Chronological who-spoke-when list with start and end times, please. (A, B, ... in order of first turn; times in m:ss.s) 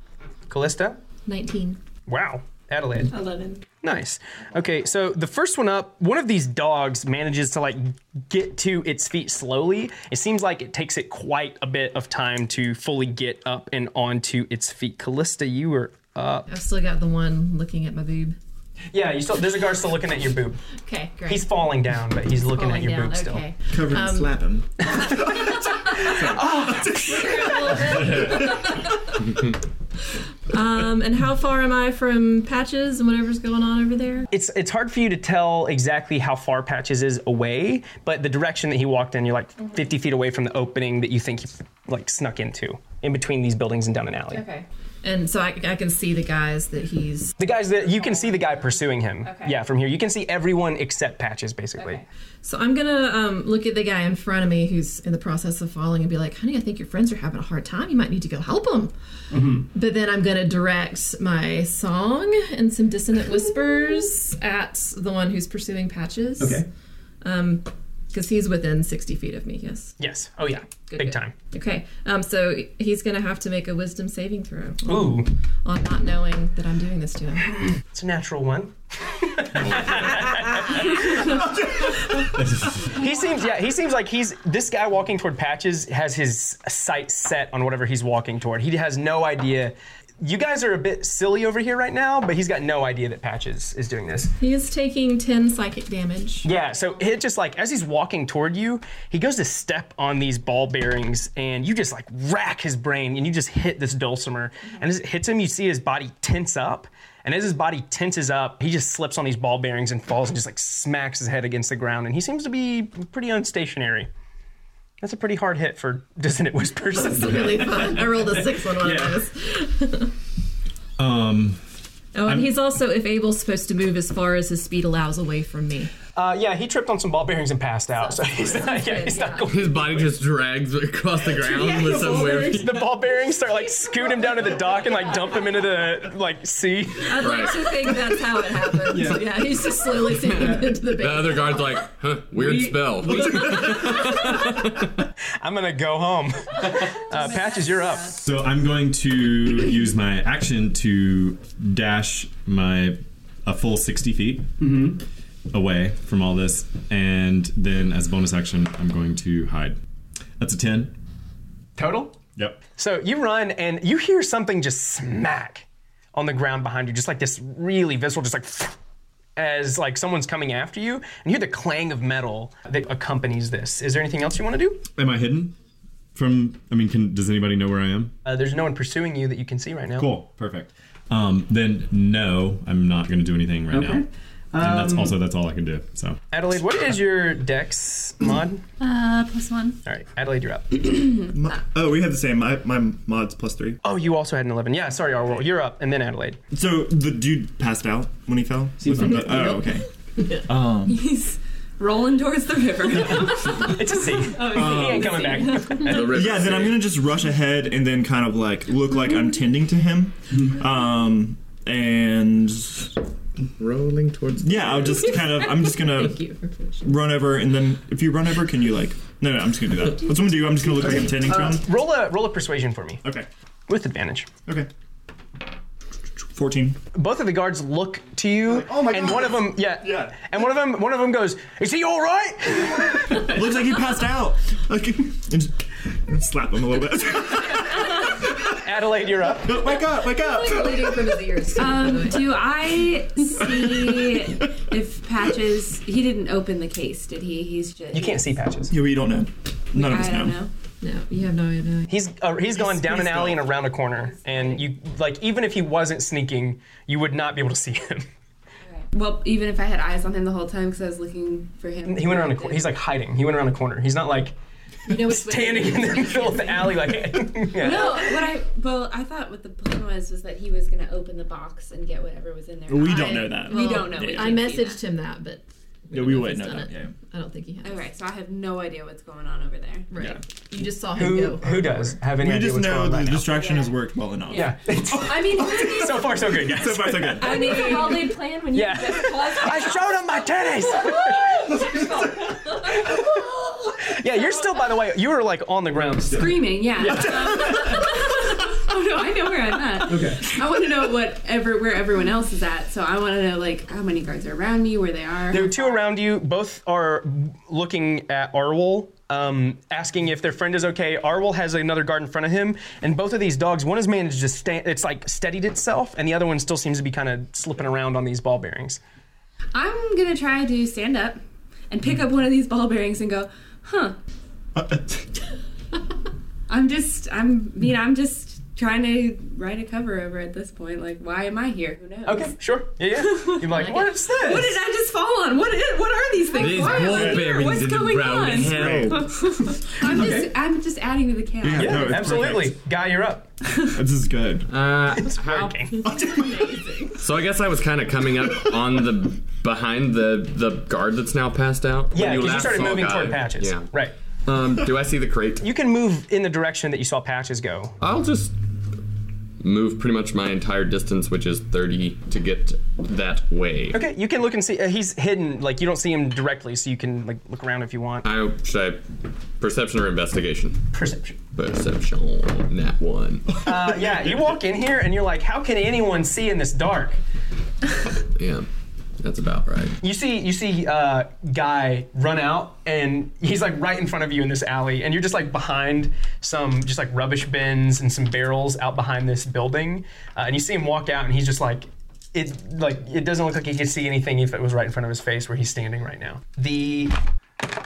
0:00.5-0:01.0 A
0:01.2-0:01.8 B
0:02.1-0:03.1 A
0:03.1-0:03.6 B
0:03.8-0:16.5 A
0:16.5-0:18.4 B
0:18.9-0:20.6 A
0:20.8-0:21.5 B
0:21.2-0:23.4 A
0:22.4-0:24.3 B
0:23.7-0:28.6 C
0:24.8-0:27.8 A
0:27.0-0:29.0 B
0:30.5-0:34.3 B
0:34.3-0:44.4 A
0:44.3-0:47.3 B
0:47.4-0:52.0 A
0:51.8-0:52.0 D
0:52.4-0:58.9 B
0:59.3-0:59.7 A
0:59.7-1:06.6 B
1:06.4-1:06.7 A
1:07.2-1:09.9 B
1:10.0-1:11.3 A
1:10.9-1:17.6 B
1:14.8-1:15.3 A
1:17.7-1:21.5 A
1:21.4-1:22.2 C
1:22.3-1:22.9 E
1:22.8-1:34.3 A
1:34.4-1:36.5 B
1:36.4-1:54.1 A
1:55.0-1:59.2 A
1:56.9-2:00.1 B
2:01.0-2:01.6 E
2:02.1-2:05.9 B
2:06.1-2:10.0 A
2:08.1-2:09.5 B
2:09.5-2:12.8 F
2:11.5-2:12.6 B
2:11.8-2:17.8 A
2:17.0-2:21.8 B
2:17.2-2:17.7 F
2:18.9-2:19.2 A
2:20.2-2:24.9 F
2:22.4-2:24.6 A
2:25.4-2:28.1 A
2:27.1-2:28.0 D
2:28.1-2:34.5 E
2:34.6-2:35.0 A
2:35.5-2:39.8 E
2:40.4-2:40.9 E
2:41.8-2:42.2 A
2:42.8-2:48.8 A
2:49.4-2:54.8 A
2:55.0-2:55.5 E
2:56.1-2:58.1 E
2:58.2-3:00.1 A
3:00.0-3:04.0 E
3:03.7-3:05.1 A
3:04.6-3:06.2 E
3:06.3-3:08.6 A
3:08.8-3:09.7 B
3:08.9-3:09.7 D
3:09.8-3:11.0 A
3:11.3-3:13.8 C
3:13.8-3:16.4 A
3:16.5-3:19.9 C
3:18.8-3:19.5 A
3:19.2-3:19.7 B
3:20.4-3:21.1 C
3:20.8-3:26.0 D
3:23.2-3:26.3 A
3:24.4-3:25.1 C
3:25.7-3:26.9 F
3:26.0-3:32.9 C
3:33.6-3:35.2 F
3:34.4-3:36.3 C
3:35.4-3:36.9 B
3:36.8-3:41.6 C
3:41.2-3:43.0 A
3:43.7-3:44.3 A
3:46.3-3:46.8 C
3:46.9-3:53.4 A
3:48.4-3:50.2 C
3:53.2-3:58.4 C
3:58.4-3:59.6 A
3:59.4-4:01.2 C
4:00.0-4:02.5 B
4:01.6-4:08.3 D
4:03.4-4:04.2 C
4:07.9-4:08.7 A
4:08.7-4:10.4 C
4:09.7-4:10.5 D
4:10.8-4:12.0 B
4:11.9-4:18.0 A
4:12.8-4:13.3 C
4:14.3-4:14.6 D
4:18.6-4:22.7 D
4:21.8-4:24.3 A
4:24.9-4:27.1 B
4:24.9-4:28.2 A
4:27.5-4:34.8 D
4:32.7-4:34.5 C
4:32.8-4:37.8 B
4:35.9-4:36.9 C
4:37.6-4:39.9 D
4:39.9-4:41.8 B
4:41.0-4:43.4 A
4:42.0-4:47.7 C
4:43.3-4:43.7 D
4:44.3-4:46.2 D
4:44.3-4:51.6 A
4:47.1-4:50.0 D
4:47.5-4:48.2 B
4:50.8-4:53.9 D
4:52.4-4:53.2 A
4:53.8-4:57.8 A
4:56.0-5:05.8 D
4:59.8-5:00.3 A
5:05.3-5:18.8 A
5:19.5-5:24.0 D
5:24.6-5:25.0 C
5:26.5-5:32.3 D
5:32.0-5:34.6 A
5:33.0-5:42.3 D
5:36.3-5:39.2 F
5:36.6-5:37.4 C
5:38.3-5:39.2 C
5:39.8-5:40.3 A
5:41.4-5:42.5 C
5:41.5-5:43.3 A
5:43.6-5:44.5 C
5:44.5-5:45.9 F
5:44.9-5:45.9 A
5:45.8-5:46.9 C
5:45.9-5:47.0 B
5:46.9-5:53.7 F
5:51.9-5:53.9 A
5:54.2-5:55.4 F
5:55.4-5:57.8 A
5:57.8-5:58.3 F
5:59.4-6:03.8 F
6:03.7-6:08.0 A
6:08.0-6:08.8 F
6:09.4-6:10.6 F
6:10.7-6:11.2 A
6:11.3-6:13.4 F
6:13.4-6:17.0 A
6:18.1-6:18.5 F
6:19.0-6:19.8 F
6:19.8-6:36.9 A